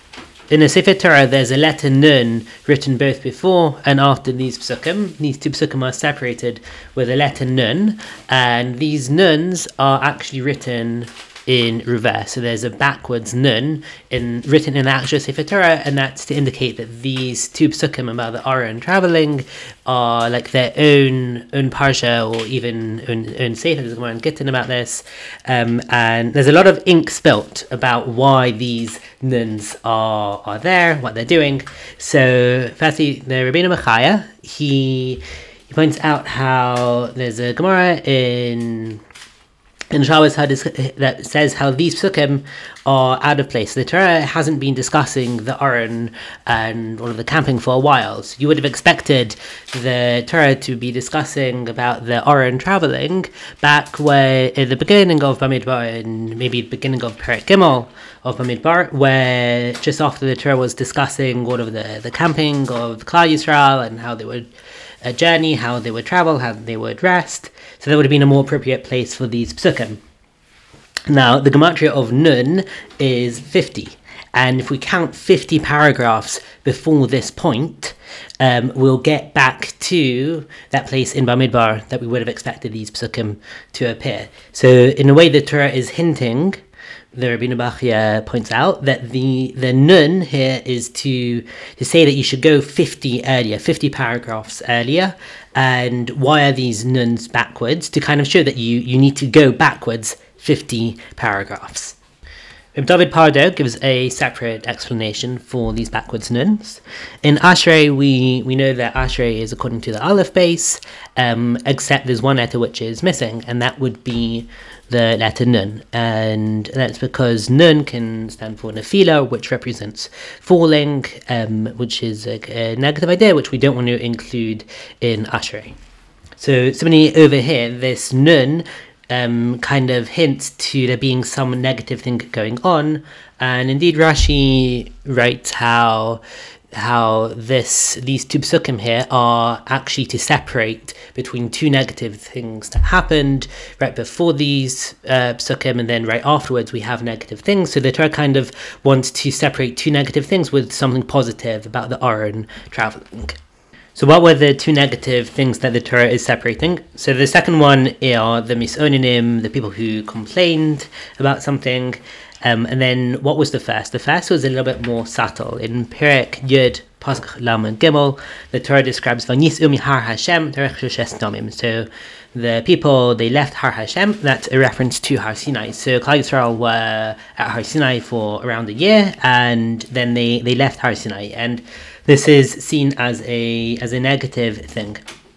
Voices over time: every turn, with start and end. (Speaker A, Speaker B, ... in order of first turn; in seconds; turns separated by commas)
Speaker A: 0.5-39.0, Speaker A: 39.9-64.5, Speaker A: 65.0-70.0, Speaker A: 71.1-86.6, Speaker A: 87.1-102.0, Speaker A: 102.7-125.7, Speaker A: 126.4-136.2, Speaker A: 136.7-153.4, Speaker A: 153.9-185.0